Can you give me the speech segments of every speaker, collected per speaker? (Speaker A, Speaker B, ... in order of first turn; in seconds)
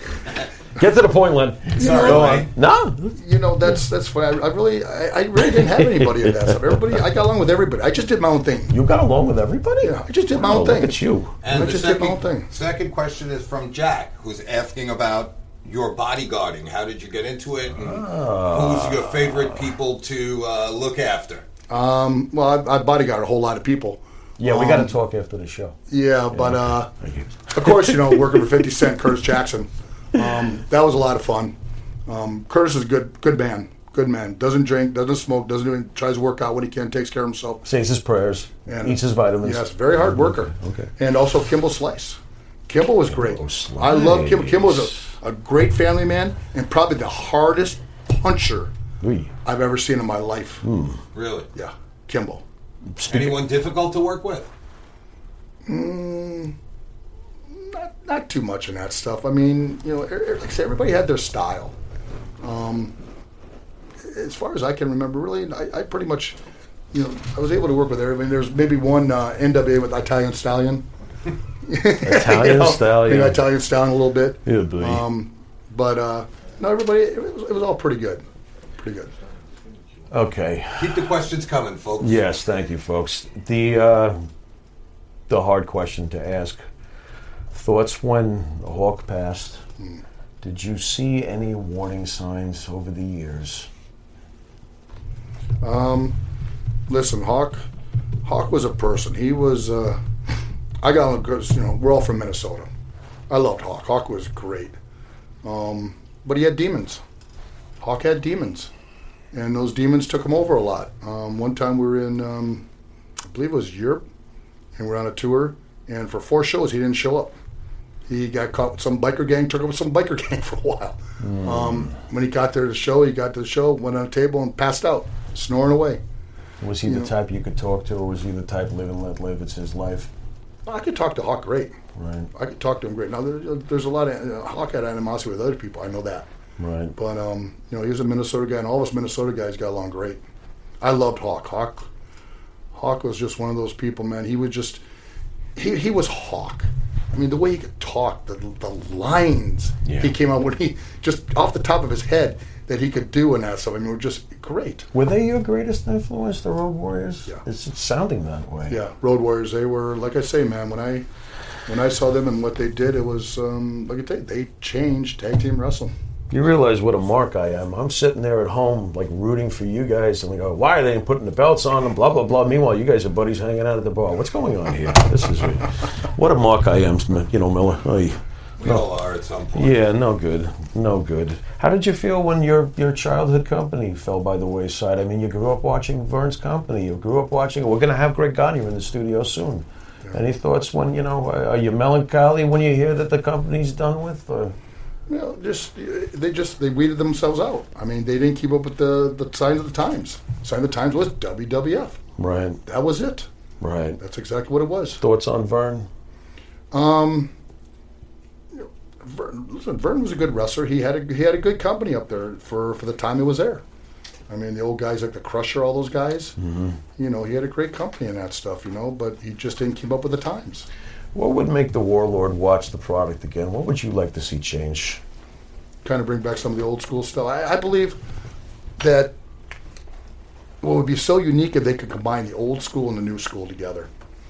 Speaker A: 0.8-3.2, 6.0-6.5, 8.7-11.4, 17.8-19.7, 24.4-25.8, 26.3-28.5, 37.6-40.9, 43.1-45.1, 49.0-49.3, 50.6-51.0, 53.0-53.5, 72.0-73.4, 74.5-75.0, 80.1-81.1, 82.0-84.3, 85.3-86.6, 87.5-89.6, 90.4-93.7, 121.2-122.0, 126.6-130.1, 132.0-132.3, 136.6-136.9, 149.8-150.1, 154.9-158.8, 166.3-178.8, 179.5-194.6, 202.2-202.6, 203.6-204.0, 205.0-205.9, 216.4-216.8, 221.2-225.0
Speaker B: 1.7-2.5, 11.4-21.5, 51.1-51.5, 53.1-54.5, 80.8-82.3, 178.6-179.8
Speaker C: 1.8-2.4, 3.1-8.8, 9.8-12.5, 21.7-25.0, 25.9-26.9, 27.5-31.6, 32.1-37.6, 38.7-48.7, 49.5-50.6, 51.5-52.4, 55.6-56.6, 57.5-61.8, 62.4-63.0, 64.0-66.4, 66.9-70.8, 71.6-78.2, 78.8-79.1, 95.6-96.2, 96.9-97.6, 98.2-102.7, 103.3-104.8, 105.4-107.0, 107.8-108.7, 109.3-112.7, 113.3-114.0, 114.8-117.3, 118.1-126.0, 126.8-127.1, 130.7-131.7, 132.3-136.3, 137.0-140.2, 140.8-141.9, 142.7-144.8, 145.6-154.9, 158.7-161.1, 161.7-165.9, 195.1-202.0, 202.7-203.3, 204.0-205.0, 206.7-207.3, 208.5-213.6, 214.3-216.3, 217.0-220.7, 225.8-228.0, 228.8-229.2, 230.6-233.9